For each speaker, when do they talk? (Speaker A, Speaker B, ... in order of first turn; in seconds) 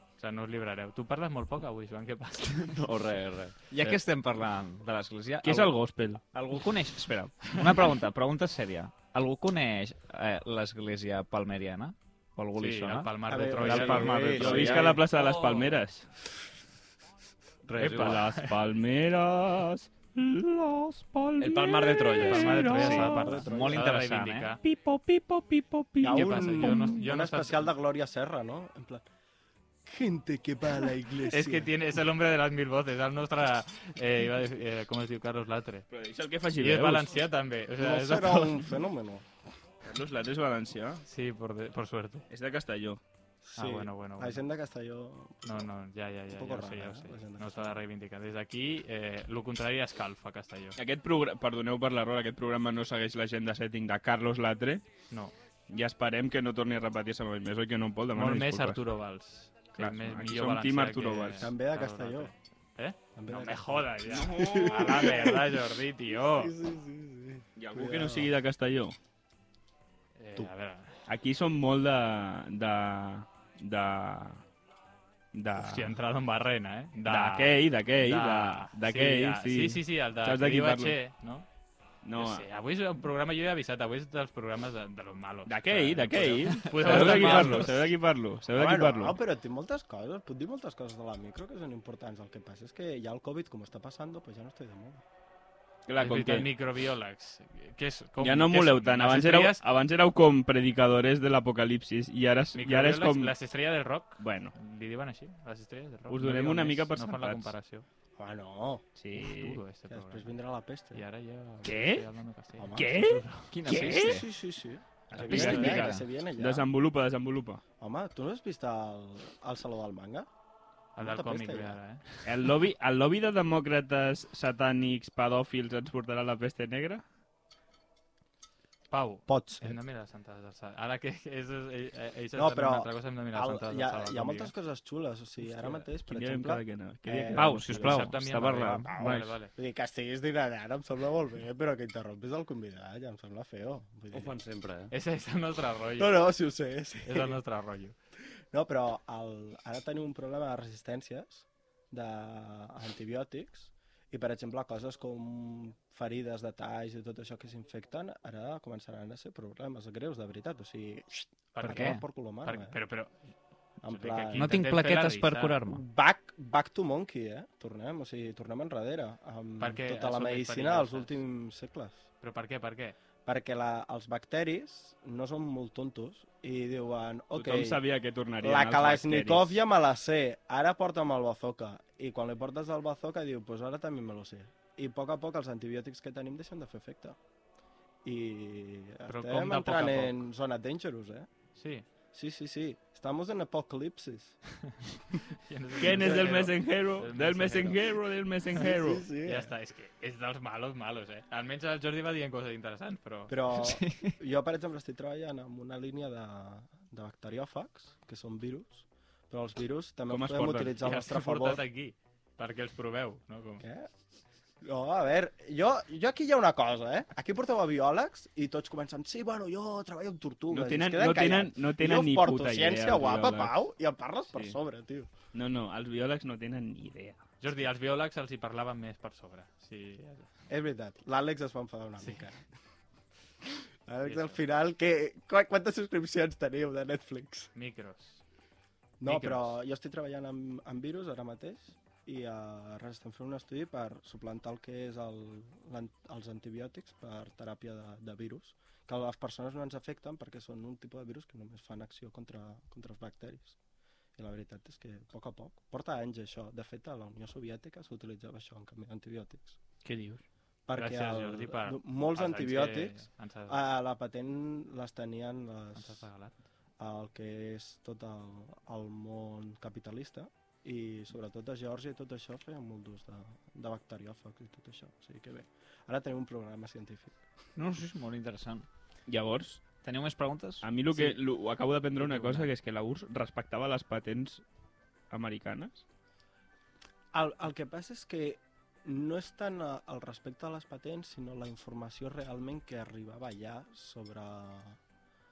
Speaker A: 0.2-2.8, 12.6-15.0, 17.8-18.6, 22.2-24.6, 26.0-27.7, 31.3-35.9, 36.6-38.7, 41.0-42.3, 43.6-44.4, 45.4-50.8, 58.1-66.5, 70.2-71.0, 75.6-81.5, 82.2-87.8, 96.0-99.6, 102.5-107.8, 109.2-110.3, 110.9-113.0, 115.2-115.9, 121.0-122.2, 128.9-134.5, 135.4-135.8, 137.6-139.5, 144.9-146.2, 147.1-147.9, 161.5-163.2, 163.8-165.6, 169.6-171.2, 172.2-172.9, 189.1-190.2, 191.5-191.8, 195.3-197.8, 199.2-203.3, 210.8-213.6, 227.4-230.3, 234.0-234.4, 237.5-238.2, 239.0-239.6, 260.8-263.6, 265.7-266.3
Speaker B: 2.7-3.5, 15.1-15.7, 17.6-18.2, 21.4-22.7, 144.1-144.9
Speaker C: 3.7-5.7, 6.3-13.1, 13.9-14.9, 22.7-24.5, 86.8-87.6, 113.5-114.3, 115.2-116.0, 137.3-139.3, 161.6-162.0, 164.3-165.8, 203.6-204.1, 277.6-278.6, 279.8-281.1, 282.0-282.5
Speaker D: 5.4-6.2, 13.6-16.1, 17.9-23.4, 24.6-27.0, 35.9-37.2, 39.8-41.0, 42.3-43.0, 50.8-54.8, 55.7-58.8, 59.8-61.5, 64.1-65.1, 67.5-69.0, 71.1-74.4, 75.3-76.0, 77.0-81.0, 82.0-82.5, 85.5-89.2, 95.9-96.5, 98.2-103.3, 104.2-104.5, 106.1-107.5, 109.0-109.6, 111.6-112.0, 112.7-114.2, 115.2-117.6, 122.2-127.0, 136.0-138.9, 177.3-179.6, 195.8-199.1, 210.1-210.8, 220.5-223.6, 224.3-224.6, 225.3-227.2, 259.8-260.2, 279.1-279.7, 280.6-284.4, 285.1-285.8
Speaker E: 13.3-15.0, 23.0-23.8, 26.0-29.0, 29.9-31.7, 37.8-39.2, 43.4-45.6, 46.3-47.8, 61.4-62.3, 63.1-65.6, 66.2-68.3, 88.5-95.0, 108.2-108.8, 109.9-111.0, 112.6-116.7, 117.8-120.3, 121.0-121.8, 129.3-129.8, 132.3-137.9, 138.7-144.3, 146.0-147.3, 148.5-162.8, 163.8-164.6, 165.7-172.0, 173.2-177.8, 178.4-187.2, 188.0-191.3, 192.1-194.4, 195.8-196.5, 198.6-199.5, 203.3-211.6, 213.6-213.9, 214.6-225.1, 230.5-232.4, 233.8-237.5, 239.0-253.5, 254.2-259.6, 260.7-266.0, 266.8-277.2, 287.1-294.8